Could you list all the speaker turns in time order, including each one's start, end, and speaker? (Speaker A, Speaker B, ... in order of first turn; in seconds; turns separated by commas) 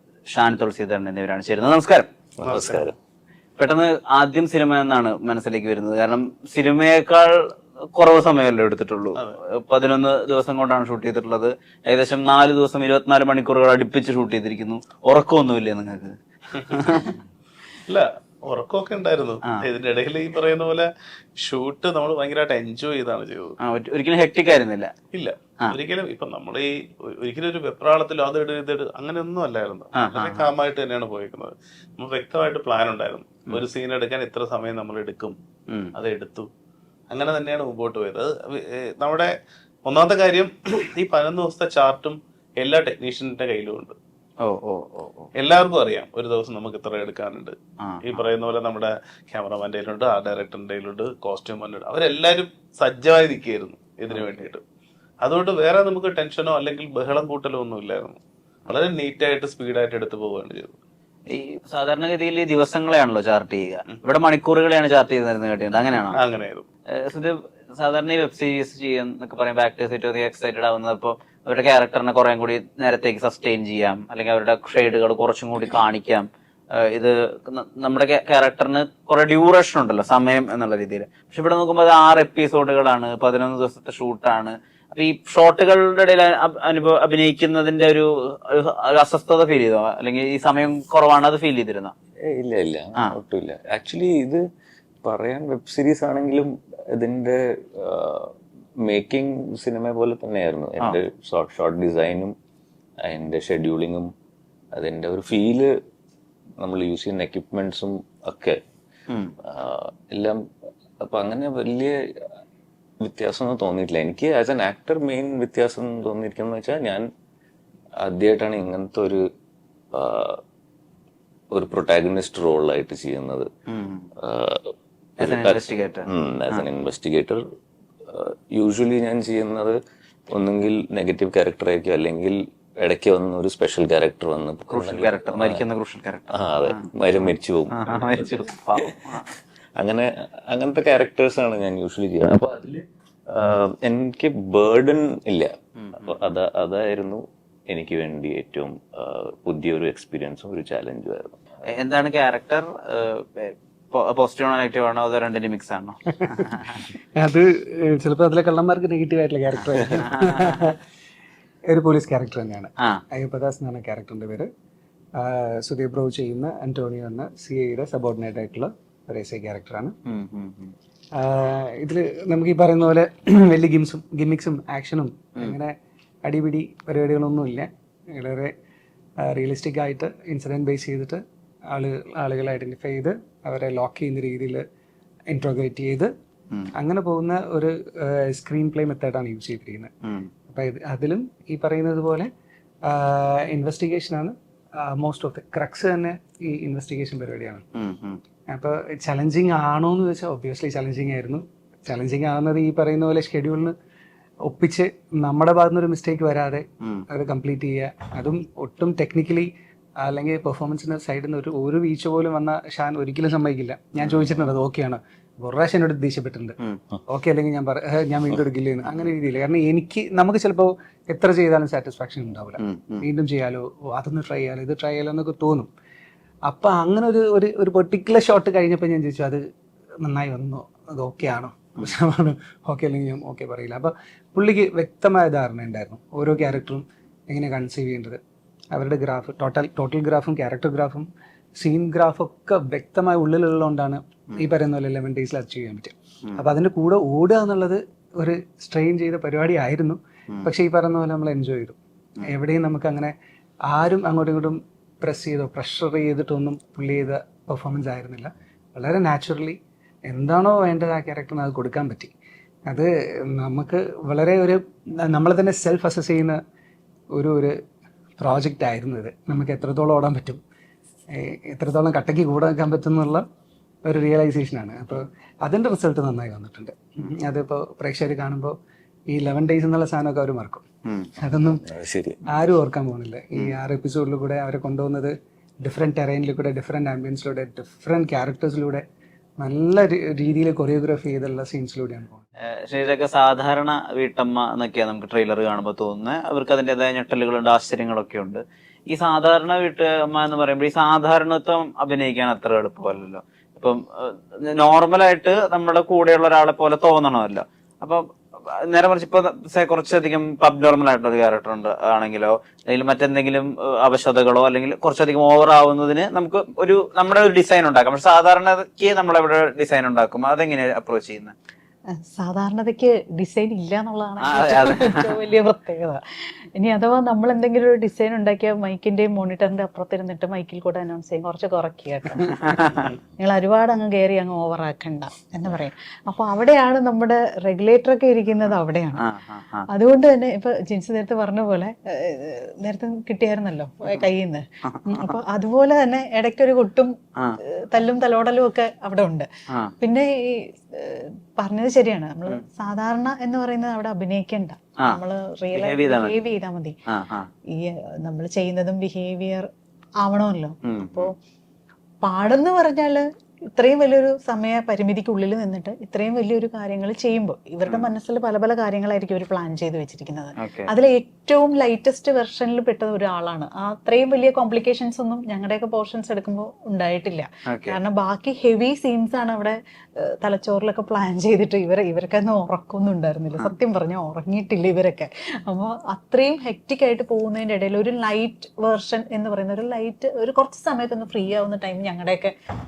Speaker A: 0.3-2.1, Speaker B: 2.4-2.9, Speaker C: 2.5-3.0, Speaker A: 3.6-17.2, Speaker B: 16.5-17.1, Speaker B: 17.9-23.6, Speaker A: 23.6-24.9, Speaker B: 25.1-35.4, Speaker A: 30.0-30.5, Speaker B: 36.0-36.5, Speaker B: 37.1-39.3, Speaker B: 39.9-44.0, Speaker A: 44.4-45.3, Speaker B: 45.4-54.6, Speaker A: 47.8-48.2, Speaker A: 54.1-54.5, Speaker B: 55.2-58.2, Speaker B: 58.7-60.8, Speaker A: 61.3-66.2, Speaker B: 66.0-66.7, Speaker A: 67.0-76.3, Speaker A: 76.8-91.9, Speaker C: 92.3-94.4, Speaker C: 95.0-102.3, Speaker C: 103.0-104.1, Speaker C: 104.7-105.7, Speaker C: 106.6-108.6, Speaker A: 109.1-109.3, Speaker C: 109.5-110.4, Speaker C: 111.0-111.9, Speaker C: 113.0-117.0, Speaker C: 118.0-119.2, Speaker C: 119.9-120.4, Speaker C: 121.5-123.5, Speaker A: 123.7-124.1, Speaker C: 124.2-127.4, Speaker A: 125.2-126.7, Speaker C: 128.1-129.8, Speaker C: 130.3-135.6, Speaker A: 134.7-136.9, Speaker C: 136.3-138.4, Speaker A: 137.8-139.3, Speaker C: 139.8-145.5, Speaker A: 145.8-146.2, Speaker C: 146.1-151.4, Speaker A: 151.8-156.9, Speaker D: 157.2-160.8, Speaker A: 160.1-160.7, Speaker D: 161.7-164.5, Speaker D: 165.2-169.9, Speaker A: 170.1-170.7, Speaker D: 171.1-175.7, Speaker D: 176.2-178.5, Speaker D: 179.2-184.6, Speaker D: 185.3-186.1, Speaker D: 186.8-189.9, Speaker A: 190.0-190.3, Speaker D: 190.5-192.3, Speaker D: 192.9-197.6, Speaker A: 197.8-198.2, Speaker D: 198.5-203.7, Speaker D: 204.4-209.5, Speaker D: 210.0-216.6, Speaker A: 214.0-214.4, Speaker D: 217.1-225.7, Speaker A: 222.6-223.1, Speaker D: 226.5-229.4, Speaker D: 230.0-238.2, Speaker D: 238.7-253.1, Speaker D: 253.7-262.1, Speaker D: 262.7-266.4, Speaker D: 267.1-267.6, Speaker D: 268.2-270.4, Speaker D: 271.1-273.2, Speaker D: 273.9-278.6, Speaker D: 279.1-280.6, Speaker D: 281.2-281.6, Speaker C: 281.5-282.2, Speaker D: 282.3-288.8, Speaker D: 289.4-292.2, Speaker A: 292.6-321.3, Speaker E: 321.9-326.0, Speaker A: 324.2-325.0, Speaker E: 326.6-339.0, Speaker A: 332.4-332.9, Speaker A: 339.0-339.7, Speaker E: 339.7-346.9, Speaker A: 344.6-345.1, Speaker E: 347.7-349.3, Speaker E: 349.8-356.8, Speaker A: 355.6-356.2, Speaker A: 356.9-357.3, Speaker E: 357.5-359.5, Speaker E: 360.0-361.1, Speaker A: 360.6-361.1, Speaker E: 362.0-363.0, Speaker E: 363.5-392.3, Speaker A: 370.4-370.7, Speaker A: 377.5-377.8